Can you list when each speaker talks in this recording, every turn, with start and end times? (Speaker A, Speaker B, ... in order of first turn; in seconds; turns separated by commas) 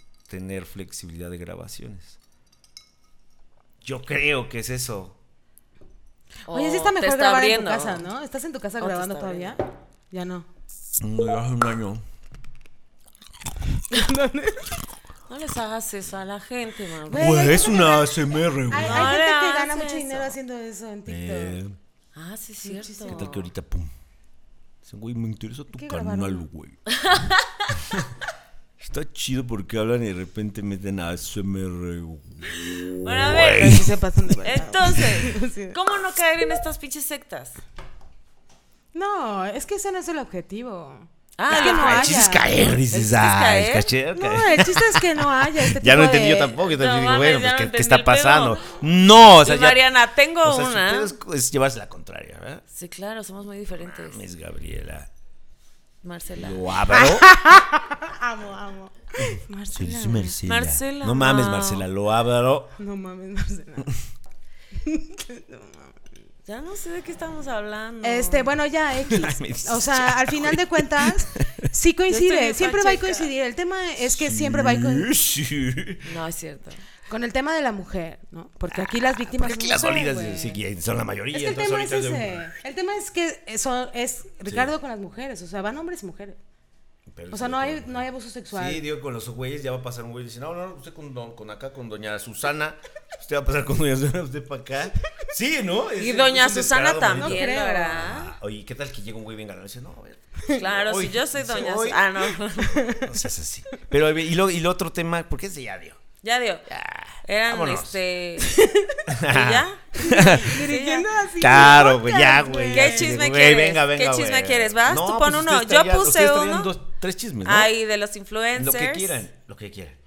Speaker A: 0.3-2.2, Speaker A: 3.8-5.2, Speaker B: 6.5-8.0, Speaker C: 6.5-10.4, Speaker B: 8.8-9.6, Speaker A: 11.0-12.0, Speaker C: 13.9-14.8, Speaker B: 15.3-17.7, Speaker C: 17.1-21.6, Speaker A: 17.1-19.2, Speaker B: 18.7-20.3, Speaker A: 21.1-21.8, Speaker B: 22.1-23.5, Speaker C: 22.6-23.3, Speaker A: 23.1-23.9, Speaker A: 24.8-26.8, Speaker C: 25.7-26.4, Speaker B: 26.9-27.7, Speaker A: 27.8-28.1, Speaker A: 28.8-34.0, Speaker B: 33.0-33.8, Speaker C: 33.4-35.8, Speaker B: 34.4-37.6, Speaker C: 38.9-42.7, Speaker B: 41.4-42.2, Speaker A: 41.5-49.8, Speaker B: 42.9-43.9, Speaker C: 44.1-46.6, Speaker B: 46.7-48.8, Speaker B: 49.4-51.1, Speaker A: 50.4-52.6, Speaker B: 52.7-54.2, Speaker A: 53.8-55.1, Speaker B: 56.0-56.6, Speaker A: 56.4-57.4, Speaker C: 56.9-60.4, Speaker A: 59.2-62.8, Speaker B: 60.4-61.8, Speaker C: 62.8-63.9, Speaker C: 64.7-65.9, Speaker B: 66.5-68.5, Speaker C: 68.0-75.1, Speaker A: 69.0-71.7, Speaker B: 72.1-73.3, Speaker A: 74.0-76.0, Speaker B: 76.0-76.8, Speaker C: 77.1-80.6, Speaker A: 78.7-82.4, Speaker C: 81.3-86.4, Speaker A: 84.5-84.7, Speaker A: 87.1-102.1, Speaker C: 87.3-88.8, Speaker B: 96.0-98.3, Speaker C: 97.1-98.0, Speaker B: 100.5-102.8, Speaker C: 102.7-103.2, Speaker A: 103.0-106.0, Speaker B: 106.2-106.7, Speaker A: 106.7-108.0, Speaker B: 107.2-108.5, Speaker C: 108.4-109.1, Speaker A: 109.1-110.6, Speaker B: 109.2-111.1, Speaker C: 110.0-113.2, Speaker A: 111.4-117.7, Speaker B: 112.7-116.7, Speaker B: 117.4-119.2, Speaker A: 118.5-120.0